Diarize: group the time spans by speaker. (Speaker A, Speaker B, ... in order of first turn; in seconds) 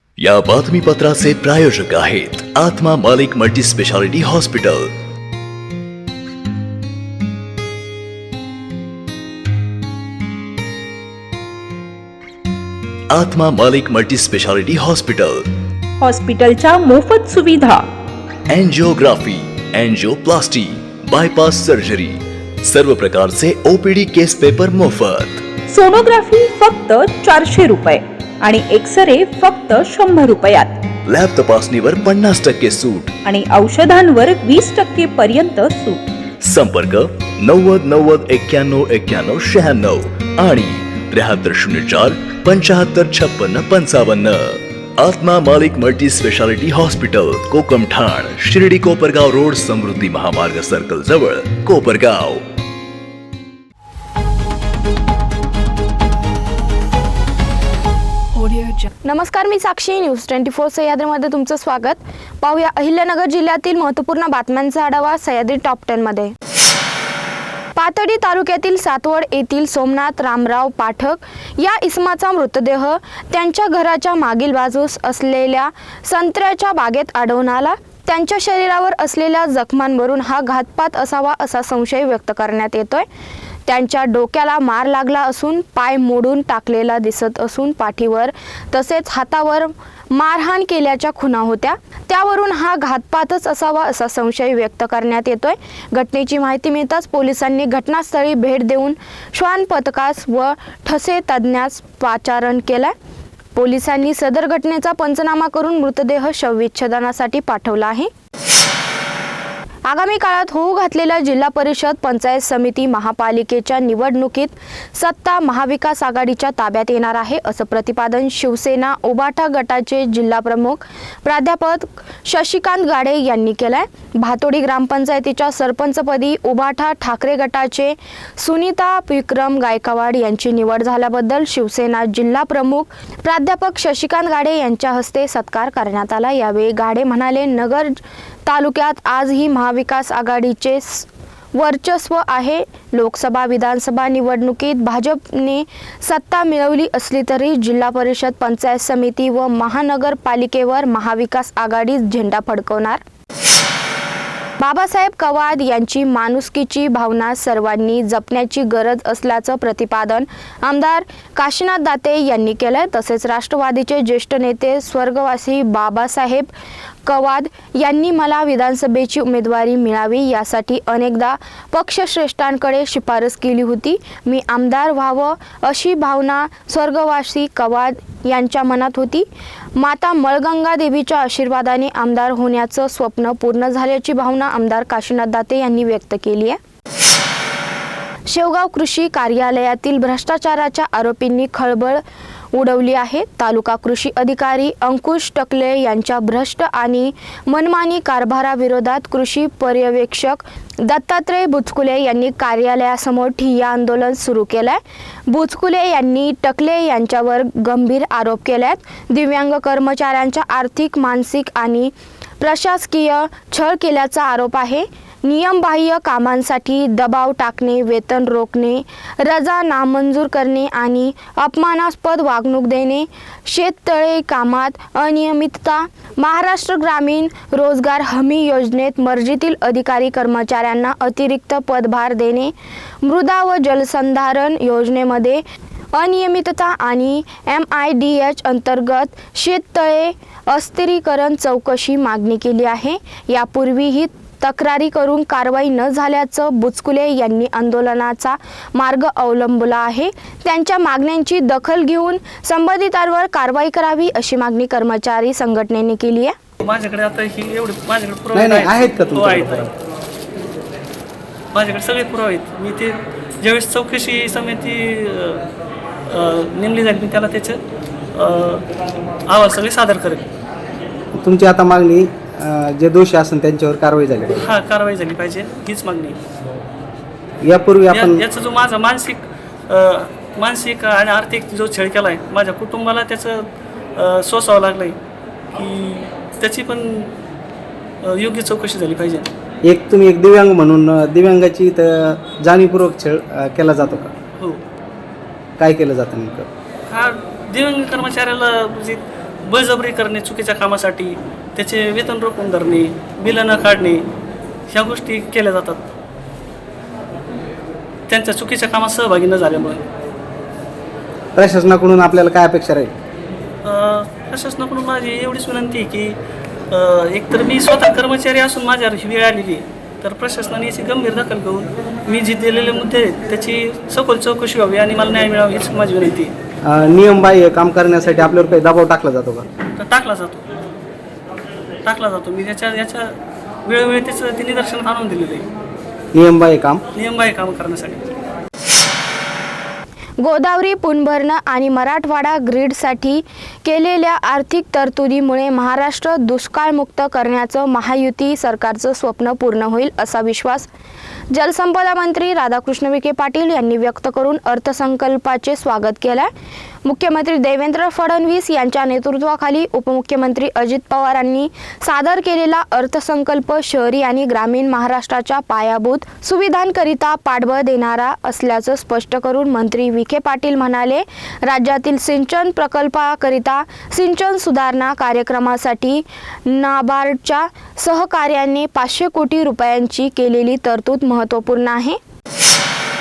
Speaker A: 0.2-4.9, 13.1-15.5, 18.5-25.4, 31.1-33.1, 36.4-52.4
Speaker B: 16.0-17.8, 25.7-30.7, 33.3-36.0
Speaker C: 59.0-66.3, 67.8-83.0, 83.7-102.9, 103.5-108.1, 109.8-153.0, 154.6-166.5, 167.1-186.6, 188.2-192.0, 192.5-235.4, 235.9-256.4, 340.2-350.7, 351.3-356.3, 356.8-382.0
Speaker D: 256.6-259.7, 261.5-265.4, 266.1-267.6, 268.1-268.6, 269.3-270.2, 274.4-276.1, 277.9-285.0, 285.5-287.1, 288.0-289.3, 296.9-304.0, 304.7-305.8, 308.1-309.8, 313.6-316.1, 316.7-326.3, 329.8-330.5, 331.8-333.1, 333.6-335.4, 336.9-338.1
Speaker E: 258.3-259.7, 271.2-274.4, 277.4-278.2, 289.6-294.1, 295.6-296.5, 311.3-312.9, 326.6-329.4, 336.1-336.8